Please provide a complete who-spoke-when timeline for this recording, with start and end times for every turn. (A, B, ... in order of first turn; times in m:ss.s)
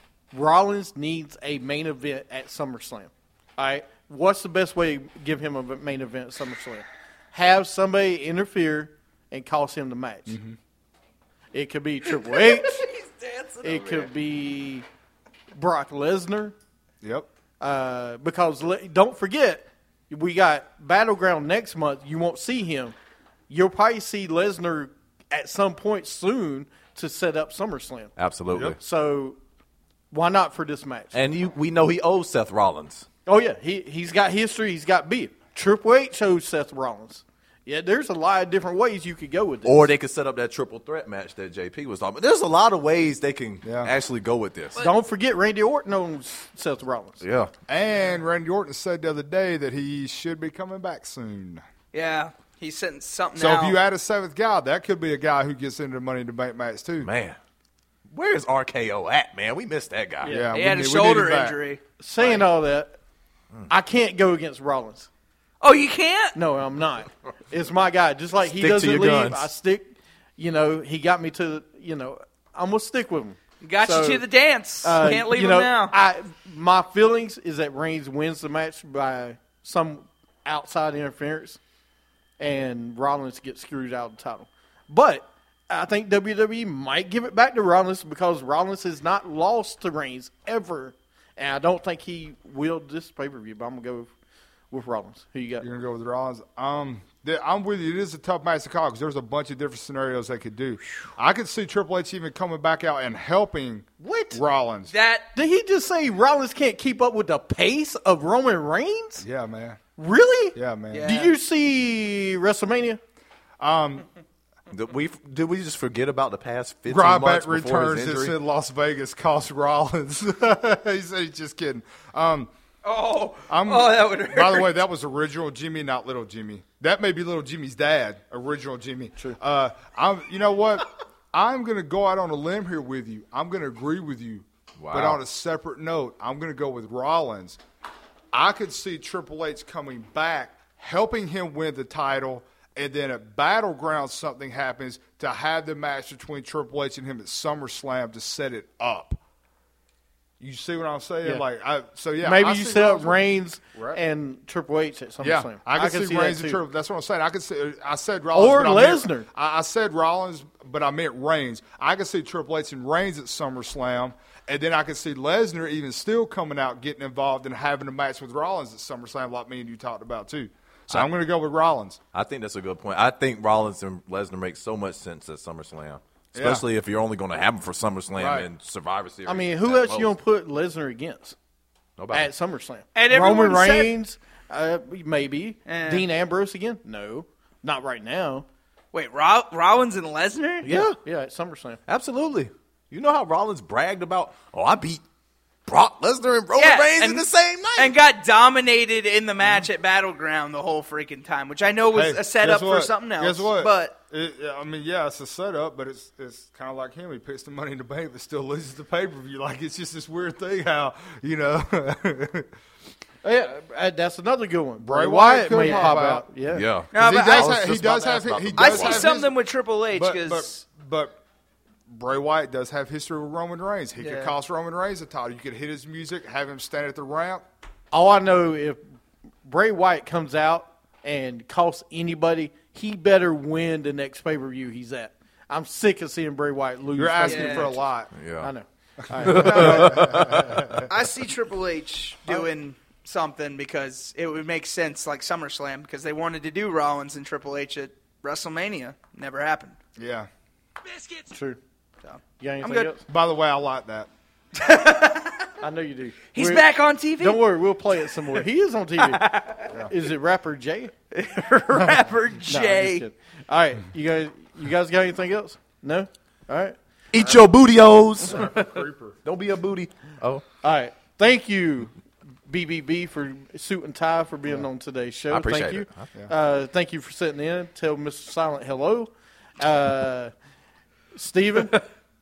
0:00.3-0:10.4 A
0:10.3-0:10.6 B
0:11.5-0:12.8 A
0:12.2-0:14.1 C
0:13.6-0:14.8 A
0:15.5-0:16.5 A
0:17.0-0:17.3 B
0:17.6-0:22.9 A
0:23.5-0:28.1 A
0:28.2-0:28.8 D
0:28.5-0:28.8 B
0:28.8-0:29.4 A
0:30.1-0:31.3 A
0:31.1-0:33.1 D
0:33.2-0:39.9 A
0:39.6-0:44.8 D
0:43.6-0:43.9 B
0:44.8-0:47.2 A
0:47.2-0:47.5 D
0:47.7-0:51.6 B
0:51.9-0:53.8 C
0:53.4-0:57.1 B
0:57.0-0:57.4 D
0:58.1-1:00.3 D
1:00.2-1:00.5 A
1:00.2-1:01.6 B
1:00.5-1:02.4 C
1:02.0-1:03.0 A
1:03.7-1:05.1 A
1:05.6-1:06.3 C
1:06.3-1:14.2 A
1:08.4-1:09.5 D
1:13.6-1:15.9 C
1:14.8-1:21.6 A
1:22.4-1:34.1 A
1:34.7-1:35.6 A
1:35.6-1:44.9 B
1:44.0-1:44.4 A
1:44.9-1:45.3 C
1:45.3-1:49.2 A
1:49.2-1:49.8 B
1:50.0-1:53.0 A
1:50.5-1:51.1 B
1:50.9-1:51.3 C
1:53.6-1:54.0 B
1:54.7-1:58.3 D
1:56.9-2:02.5 B
2:02.8-2:04.7 C
2:03.5-2:17.6 B
2:14.8-2:15.2 D
2:18.3-2:29.2 B
2:30.4-2:34.0 B
2:32.2-2:36.6 A
2:35.2-2:52.0 B
2:38.3-2:39.3 A
2:52.1-3:00.1 D
2:56.3-2:56.6 B
2:58.2-2:58.5 B
2:59.2-3:01.3 A
3:02.0-3:02.3 D
3:02.1-3:08.4 A
3:02.9-3:03.9 C
3:05.7-3:06.0 C
3:08.9-3:10.7 C
3:10.6-3:11.0 D
3:10.7-3:11.8 A
3:11.9-3:15.0 D
3:15.7-3:17.9 D
3:16.6-3:23.9 C
3:21.9-3:32.5 B
3:33.2-3:36.6 A
3:34.8-3:36.2 B
3:35.5-3:35.9 C
3:36.5-3:39.0 D
3:36.9-3:37.6 C
3:36.9-3:39.3 B
3:38.6-3:40.6 C
3:39.9-3:41.2 B
3:41.9-3:47.4 B
3:44.0-3:44.4 C
3:47.9-3:48.8 A
3:49.4-3:57.8 A
3:57.0-3:58.1 B
3:57.2-3:57.7 C
3:58.1-3:58.5 D
3:58.4-4:00.0 A
3:59.1-4:00.9 B
3:59.2-4:00.9 D
4:00.9-4:09.8 C
4:10.0-4:10.3 B
4:10.8-4:11.3 C
4:11.3-4:11.6 A
4:12.0-4:12.9 C
4:12.4-4:13.0 A
4:13.1-4:14.1 B
4:14.5-4:15.5 C
4:15.6-4:16.6 A
4:16.3-4:17.4 C
4:17.2-4:19.2 A
4:19.0-4:19.7 C
4:19.9-4:20.9 A
4:21.1-4:23.0 C
4:22.5-4:26.8 A
4:27.1-4:28.5 D
4:28.2-4:29.2 B
4:29.2-4:30.4 D
4:30.6-4:31.9 A
4:32.5-4:40.3 A
4:35.3-4:36.1 D
4:41.1-4:41.8 A